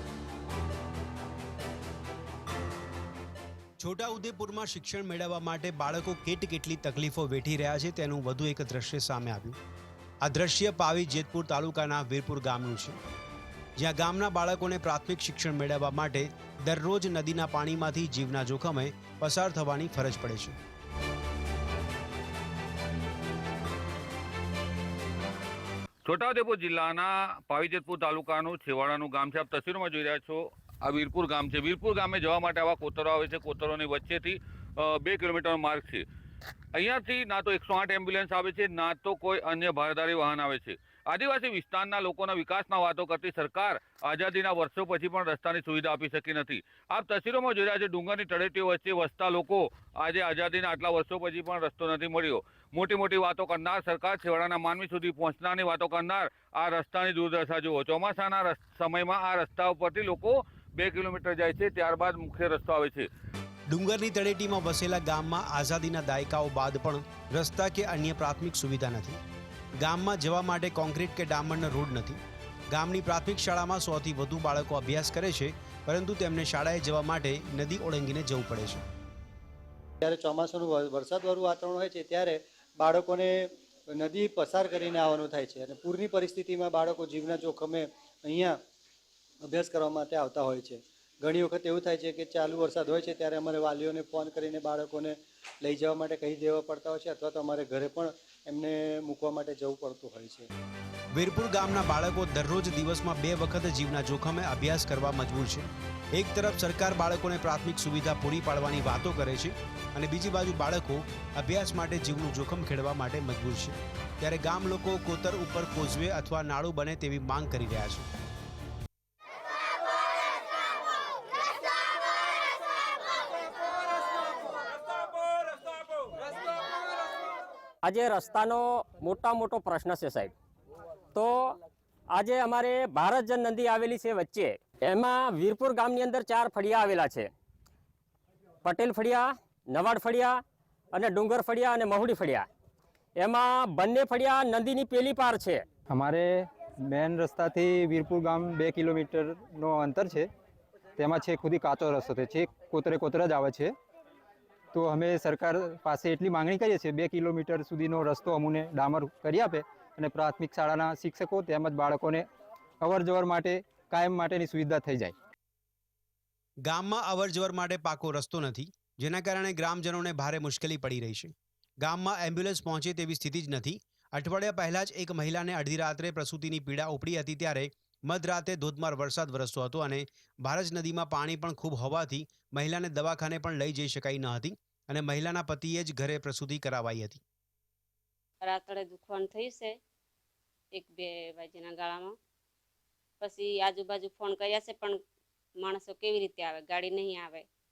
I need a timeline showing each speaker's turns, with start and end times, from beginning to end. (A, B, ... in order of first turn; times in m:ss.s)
0:03.8-0:09.6 A
0:10.2-0:13.0 A
0:13.8-0:20.6 A
0:26.0-0:36.0 B
0:36.7-1:03.1 B
1:03.7-1:09.2 A
1:09.8-1:12.2 A
1:12.7-1:18.8 A
1:20.0-1:28.5 C
1:29.5-1:40.5 C
1:41.2-1:58.1 A
2:07.8-2:10.3 D
2:11.1-2:11.6 D
2:12.1-2:17.3 D
2:18.6-2:22.5 D
2:23.2-2:25.6 D
2:25.9-2:30.3 E
2:31.0-2:33.7 E
2:34.7-2:42.2 E
2:42.8-2:45.1 E
2:46.6-3:07.2 A
3:08.4-3:09.7 F
3:10.7-3:12.1 F
3:13.2-3:15.0 F
3:15.6-3:17.4 F